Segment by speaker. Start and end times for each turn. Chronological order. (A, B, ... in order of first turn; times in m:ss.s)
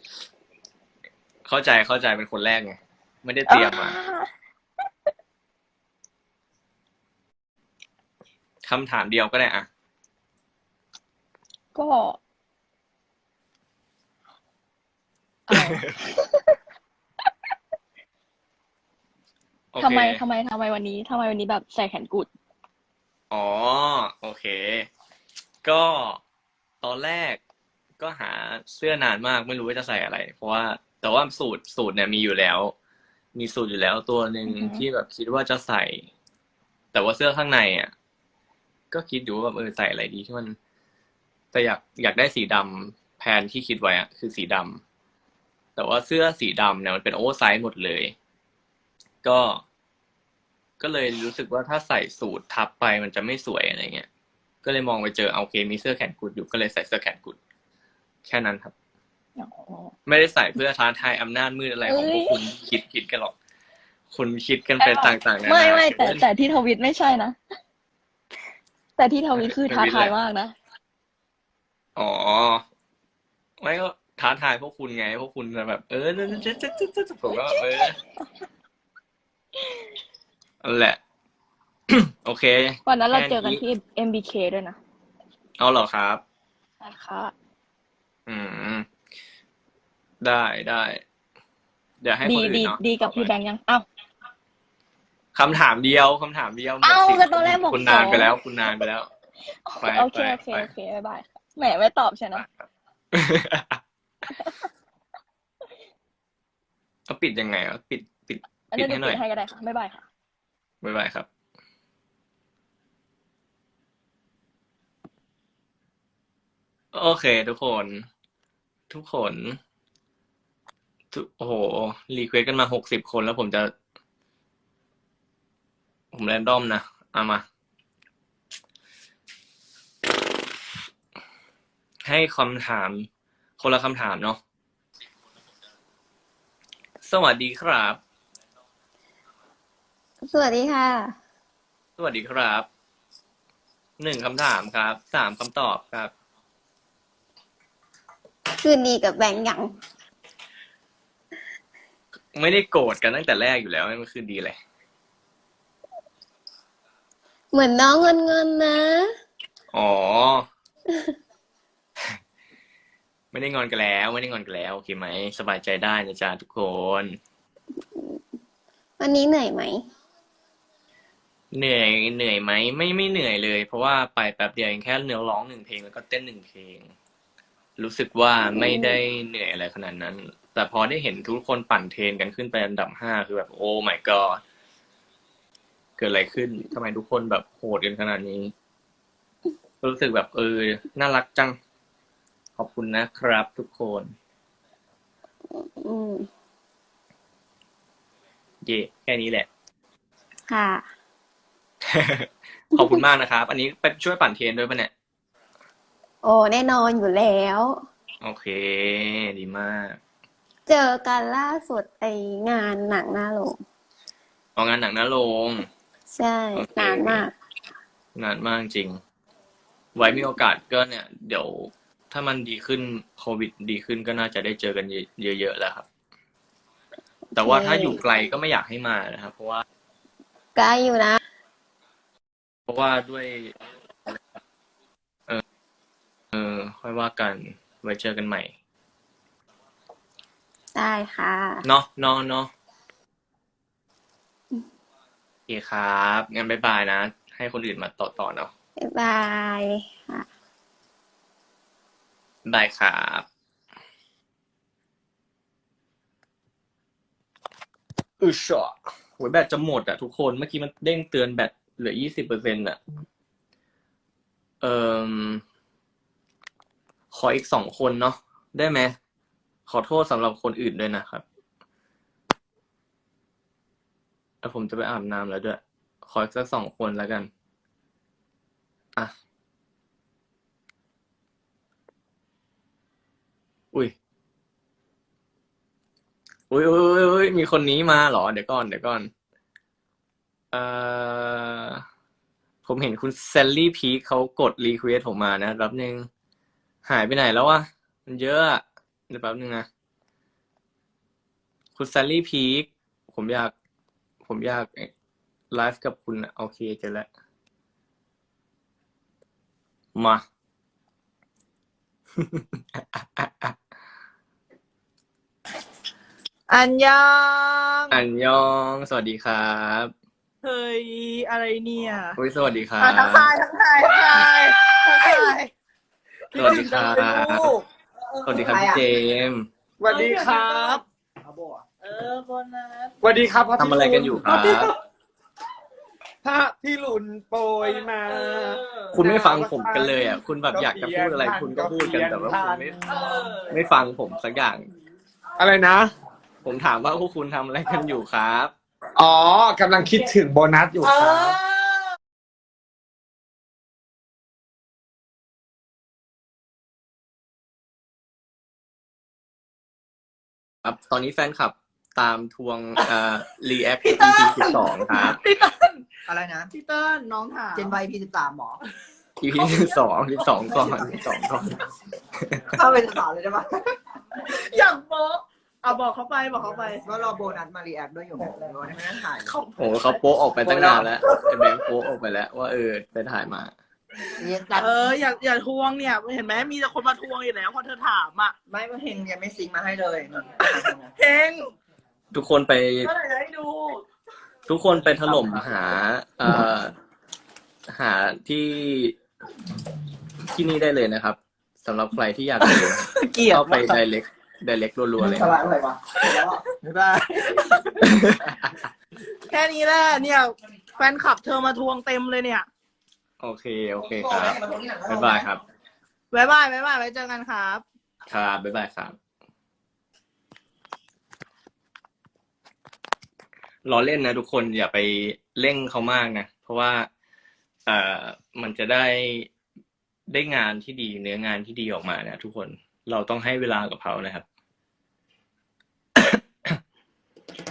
0:01.4-0:04.0 A
0:03.5-0:04.3 B
0:08.6-0:09.7 A
0:11.7-0:12.2 B
0:15.5-0:16.3 B
0:15.5-0:16.0 A
0:19.7-0:20.2 A
0:19.8-0:22.3 B
0:23.3-0:24.9 A
0:25.6-0:26.2 A
0:26.8-0:27.4 A
0:28.0-0:32.7 A
0:33.3-0:36.1 A
0:34.5-0:34.8 B
0:36.9-0:37.9 A
0:38.9-0:40.6 A
0:41.5-0:44.8 A
0:45.8-0:48.1 A
0:49.2-0:49.6 A
0:50.8-0:54.1 A
0:54.6-0:57.4 A
0:58.2-0:58.7 A
0:59.4-0:59.9 B
1:00.1-1:03.3 A
1:01.8-1:02.4 B
1:04.1-1:06.2 A
1:04.8-1:07.4 B
1:09.0-1:10.5 B
1:09.3-1:10.1 A
1:12.0-1:12.6 A
1:13.6-1:18.0 A
1:20.6-1:21.0 A
1:21.9-1:23.6 A
1:22.8-1:24.8 B
1:25.6-1:26.2 A
1:26.8-1:27.3 B
1:28.3-1:28.9 A
1:30.2-1:31.0 A
1:32.0-1:33.3 A
1:32.2-1:33.8 B
1:35.3-1:39.1 A
1:36.8-1:38.3 B
1:39.7-1:42.5 B
1:39.8-1:40.7 A
1:43.1-1:43.8 A
1:47.1-1:49.2 A
1:48.7-1:50.0 B
1:50.8-1:51.3 A
1:56.9-1:58.1 A
1:58.9-1:59.6 A
2:01.1-2:03.7 A
2:06.1-2:07.4 A
2:12.0-2:14.4 A
2:17.0-2:18.0 A
2:20.3-2:21.2 C
2:22.0-2:22.7 A
2:24.0-2:26.1 A
2:28.5-2:29.7 C
2:32.3-2:34.6 A
2:37.5-2:39.1 C
2:39.7-2:40.5 A
2:43.3-2:47.2 A
2:49.0-2:49.9 C
2:51.5-2:56.9 A
2:57.8-3:04.4 A
2:58.4-2:59.0 C
3:06.0-3:08.5 A
3:09.8-3:11.6 A
3:12.6-3:14.1 A
3:15.5-3:16.3 C
3:18.6-3:19.5 A
3:20.5-3:20.8 C
3:21.9-3:24.9 A
3:26.2-3:27.8 C
3:28.2-3:30.0 A
3:30.6-3:33.6 C
3:34.6-3:35.7 A
3:36.1-3:37.3 C
3:36.5-3:37.2 A
3:38.1-3:39.0 A
3:39.9-3:45.9 A
3:47.3-3:48.0 C
3:47.4-3:49.6 A
3:50.6-3:51.2 C
3:52.7-3:53.5 A
3:56.3-3:58.5 A
4:00.7-4:01.6 C
4:01.6-4:02.5 A
4:05.5-4:08.5 A
4:08.8-4:10.3 C
4:12.4-4:13.3 A
4:18.2-4:22.8 A
4:24.6-4:25.4 A
4:27.1-4:29.0 A
4:29.7-4:31.2 A
4:34.4-4:37.3 A
4:46.5-4:49.1 A
4:50.5-4:51.8 A
4:52.6-4:56.1 A
4:56.8-4:59.7 A
5:01.8-5:03.5 A
5:04.2-5:04.9 A
5:05.5-5:07.1 A
5:09.9-5:10.2 A
5:12.2-5:13.6 A
5:16.5-5:18.0 D
5:17.9-5:19.9 A
5:20.4-5:22.2 D
5:22.2-5:23.3 A
5:22.8-5:25.5 D
5:26.3-5:27.6 D
5:26.3-5:27.5 A
5:26.9-5:27.3 E
5:28.2-5:28.8 F
5:28.2-5:29.5 A
5:28.5-5:28.8 D
5:29.8-5:30.8 E
5:29.8-5:30.8 D
5:31.2-5:31.6 F
5:31.8-5:33.3 D
5:33.0-5:34.7 E
5:33.6-5:34.7 A
5:36.2-5:43.3 E
5:37.6-5:39.0 D
5:38.9-5:42.8 A
5:42.9-5:43.5 D
5:43.5-5:44.6 A
5:45.4-5:45.9 E
5:46.4-5:48.5 A
5:49.0-5:51.4 E
5:50.8-5:51.8 D
6:00.6-6:05.2 A
6:03.8-6:07.7 D
6:06.1-6:06.5 F
6:07.5-6:08.6 F
6:09.2-6:11.6 A
6:09.4-6:09.8 D
6:10.5-6:11.0 D
6:12.5-6:13.7 F
6:14.2-6:16.9 D
6:16.8-6:19.3 F
6:19.2-6:20.0 D
6:19.6-6:23.5 A
6:20.4-6:20.8 F
6:24.2-6:24.9 F
6:24.5-6:28.3 D
6:28.5-6:30.9 F
6:31.0-6:31.5 D
6:32.1-6:32.9 A
6:32.8-6:33.8 D
6:34.5-6:36.7 A
6:37.7-6:39.0 A
6:40.3-6:45.3 A
6:43.0-6:43.4 D
6:43.0-6:43.6 F
6:45.0-6:47.8 F
6:46.0-6:46.5 D
6:47.8-6:48.6 A
6:49.3-6:52.4 D
6:53.2-6:55.4 A
6:53.8-6:55.3 F
6:56.1-6:57.6 D
6:58.1-6:59.0 A
7:03.6-7:06.9 A
7:07.6-7:09.3 A
7:10.1-7:14.2 A
7:16.0-7:16.6 A